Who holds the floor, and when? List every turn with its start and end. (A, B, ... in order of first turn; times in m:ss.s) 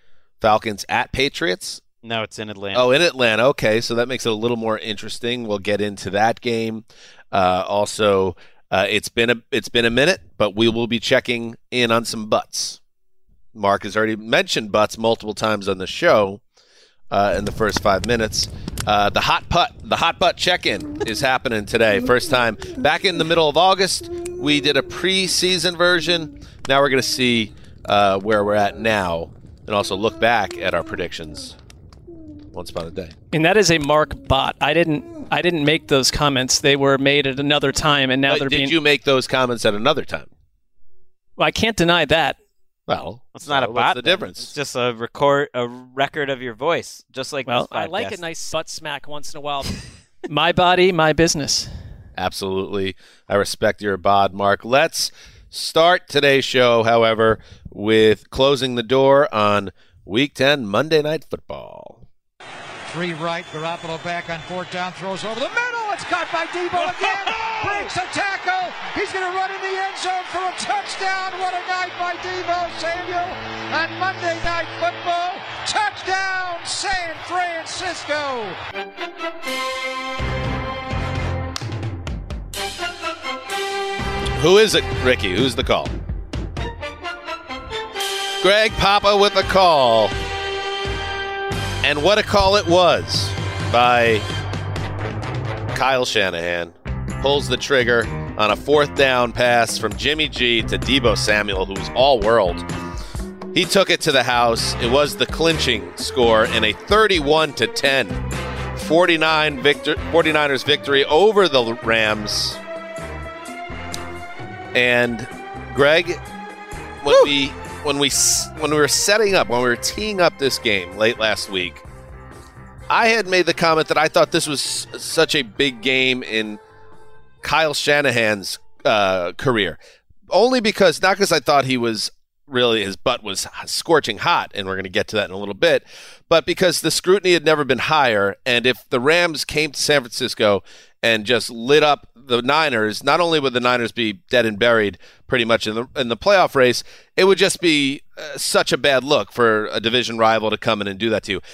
0:00.4-0:01.8 A
0:02.0-0:02.8 B
0:02.7-0:12.8 A
0:13.5-0:16.4 A
0:17.1-0:31.6 A
0:32.5-0:33.2 A
0:33.3-0:38.8 C
0:38.3-0:40.3 A
0:41.4-0:42.4 C
0:42.9-0:44.5 A
0:43.4-0:48.2 B
0:47.5-0:51.7 C
0:52.2-1:02.0 A
1:02.9-1:18.6 D
1:24.4-1:25.9 A
1:28.4-1:30.1 A
1:31.8-1:34.3 A
1:35.7-1:42.7 A
1:43.5-1:48.2 A
1:48.8-1:52.6 A
1:54.7-1:56.2 A
1:57.0-2:01.8 A
2:02.9-2:06.6 A
2:07.4-2:09.8 A
2:10.3-2:31.4 A